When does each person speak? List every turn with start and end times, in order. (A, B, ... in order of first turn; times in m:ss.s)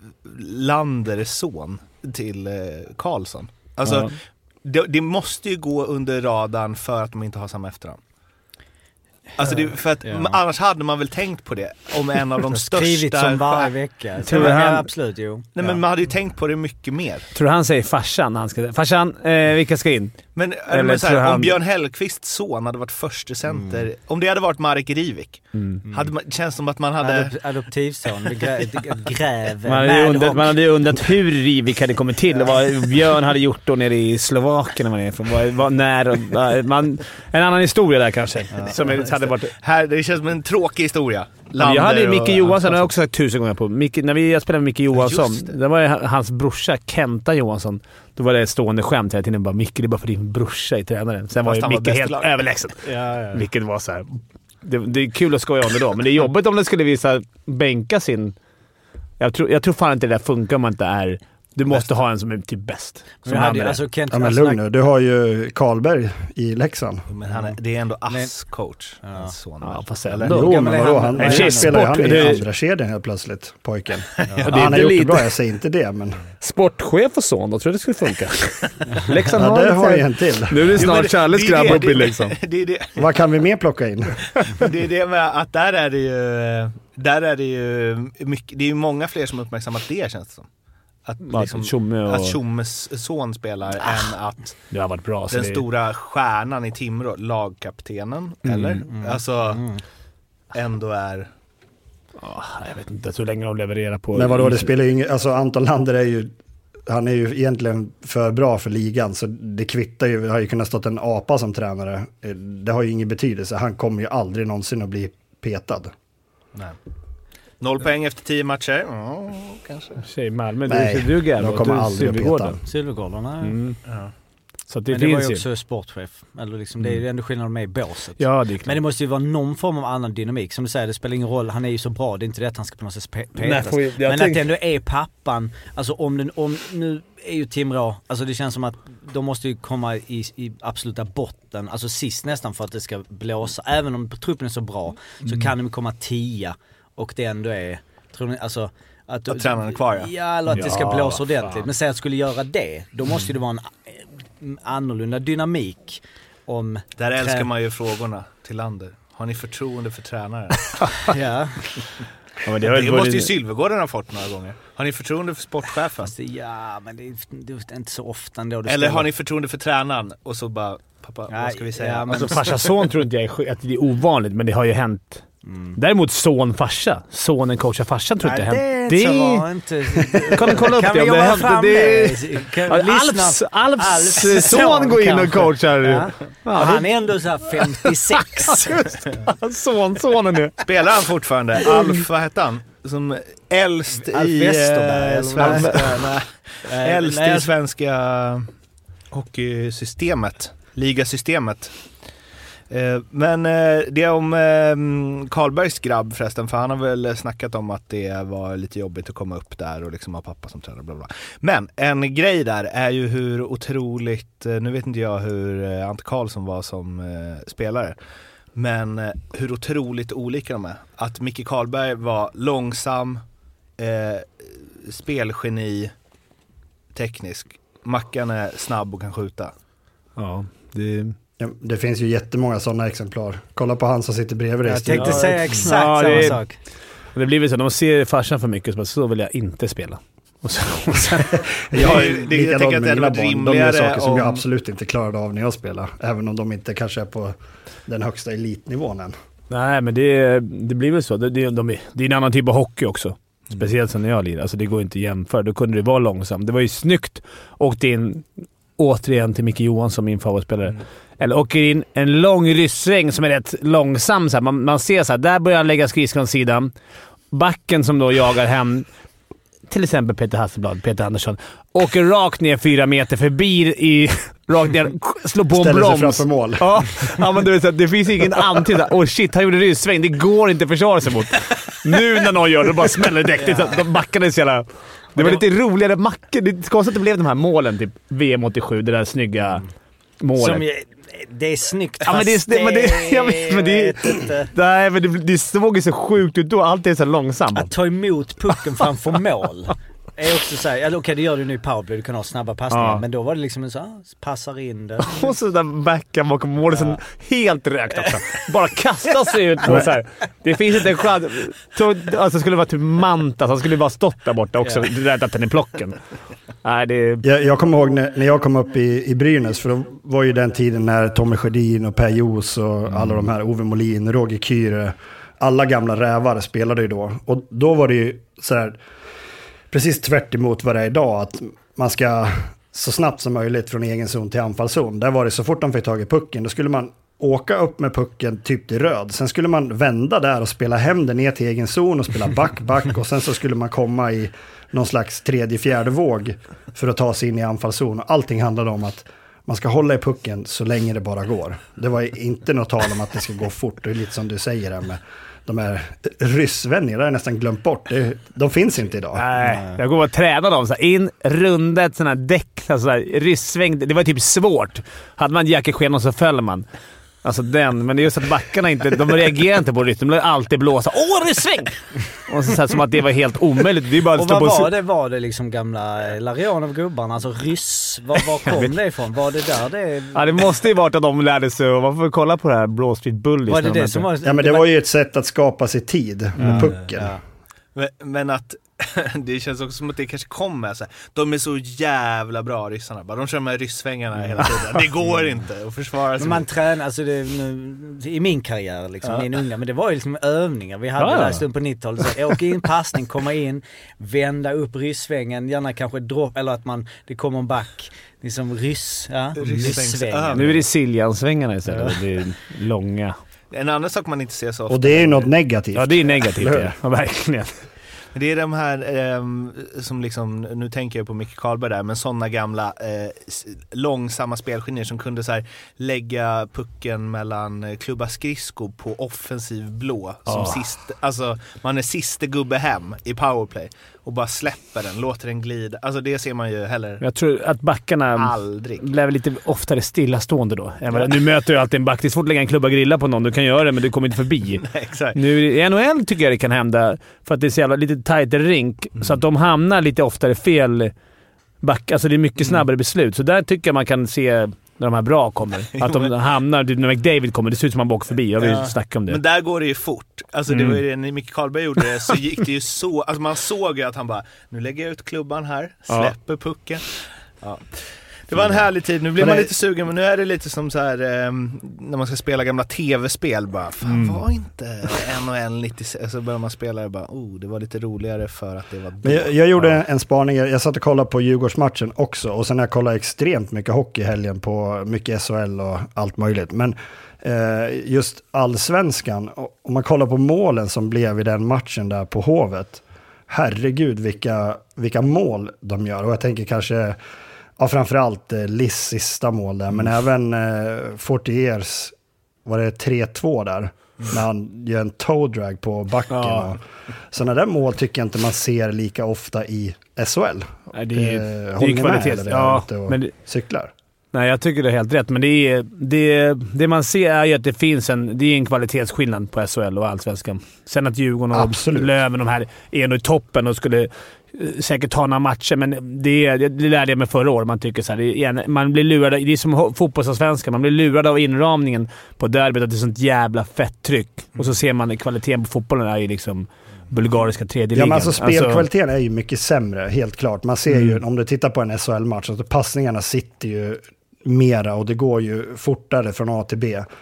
0:00.2-0:08.0 A
0:03.8-0:04.1 B
0:09.4-0:13.7 A
0:09.4-0:10.4 C
0:12.5-0:15.8 C
0:14.2-0:14.9 B
0:15.6-0:17.3 A
0:17.3-0:21.6 B
0:20.3-0:27.3 A
0:23.5-0:23.8 C
0:25.5-0:25.8 B
0:27.0-0:30.5 C
0:29.6-0:39.5 B
0:32.3-0:32.6 C
0:38.5-0:38.8 C
0:38.7-0:42.9 A
0:41.6-0:58.4 B
0:44.9-0:45.5 A
0:51.4-0:52.5 A
0:52.8-0:53.3 C
0:59.2-1:03.8 B
1:03.2-1:04.6 C
1:04.1-1:07.1 D
1:07.1-1:10.3 A
1:07.3-1:07.6 C
1:09.0-1:09.3 C
1:09.6-1:12.4 B
1:10.2-1:16.2 D
1:10.3-1:12.4 C
1:14.2-1:14.8 A
1:14.2-1:14.5 C
1:14.5-1:15.3 B
1:16.4-1:22.4 B
1:19.3-1:20.9 D
1:20.7-1:23.1 A
1:23.0-1:24.2 D
1:24.6-1:30.5 A
1:31.0-1:34.7 A
1:31.2-1:32.4 B
1:34.7-1:35.6 B
1:35.3-1:39.6 A
1:38.4-1:38.8 B
1:38.9-1:39.8 C
1:40.5-1:41.3 A
1:42.2-1:44.7 B
1:44.1-1:46.3 D
1:46.8-1:55.9 D
1:57.6-2:00.0 A
2:00.0-2:02.6 B
2:00.7-2:02.6 D
2:02.7-2:03.6 C
2:03.4-2:03.8 B
2:03.8-2:04.1 A
2:04.7-2:05.4 B
2:04.9-2:37.5 C
2:08.2-2:08.8 B
2:13.4-2:14.5 B
2:29.3-2:30.1 A
2:30.5-2:31.6 B
2:37.0-2:41.1 A
2:41.1-2:41.7 C
2:42.4-2:43.3 B
2:42.6-2:46.1 A
2:46.0-2:49.1 C
2:48.6-2:52.8 A
2:51.3-2:52.6 C
2:52.1-2:55.2 B
2:55.4-2:55.8 C
2:55.8-3:06.9 B
2:58.2-3:08.8 C
3:07.6-3:10.6 B
3:10.6-3:18.5 A
3:13.9-3:16.1 C
3:15.4-3:16.0 B
3:16.6-3:17.5 C
3:19.1-3:21.8 A
3:22.7-3:38.0 A
3:38.5-3:43.2 A
3:43.8-3:45.9 A
3:46.9-3:49.5 A
3:50.2-3:51.2 B
3:51.4-3:55.5 D
3:54.6-3:56.6 C
3:54.8-3:56.6 B
3:57.1-4:01.5 B
4:01.3-4:09.1 D
4:01.7-4:04.4 A
4:09.5-4:26.7 B
4:27.3-4:28.9 B
4:29.7-4:49.6 B
4:35.5-4:36.9 D
4:43.3-4:43.8 C
4:45.2-4:45.4 C
4:50.2-4:50.6 B
4:50.4-4:54.5 C
4:52.0-4:57.7 B
4:57.5-5:05.3 C
5:02.7-5:03.0 B
5:05.0-5:16.0 B
5:06.7-5:07.0 C
5:14.6-5:14.9 C
5:16.6-5:17.2 B
5:17.2-5:28.8 D
5:29.7-5:59.2 D
5:59.1-6:06.7 B
5:59.4-5:59.8 C
6:07.2-6:14.7 B
6:14.1-6:20.4 C
6:18.4-6:18.7 B
6:20.1-6:24.1 B
6:23.5-6:24.7 C
6:24.2-6:27.1 D
6:26.4-6:27.2 C
6:27.7-6:36.5 A
6:34.4-6:34.7 B
6:36.2-6:50.5 C
6:41.0-6:41.4 B
6:49.4-6:50.6 A
6:50.3-6:53.2 B
6:51.7-6:52.0 C
6:53.5-6:55.3 A
6:54.7-6:56.8 D
6:55.7-6:57.6 B
6:58.1-7:17.0 A
7:10.3-7:10.6 B
7:17.0-7:30.9 B
7:18.2-7:18.8 A
7:20.9-7:21.2 A
7:24.5-7:25.2 A
7:31.6-7:39.2 B
7:35.7-7:36.1 A
7:38.4-7:59.8 A
7:40.5-7:40.8 B
7:49.2-7:49.5 D
7:53.8-7:54.2 B
7:59.0-8:17.0 D
8:17.6-8:33.7 D
8:26.1-8:26.5 B
8:30.7-8:33.1 B
8:34.1-8:58.6 B
8:41.3-8:42.0 D
8:57.7-9:06.9 D
9:00.7-9:01.0 B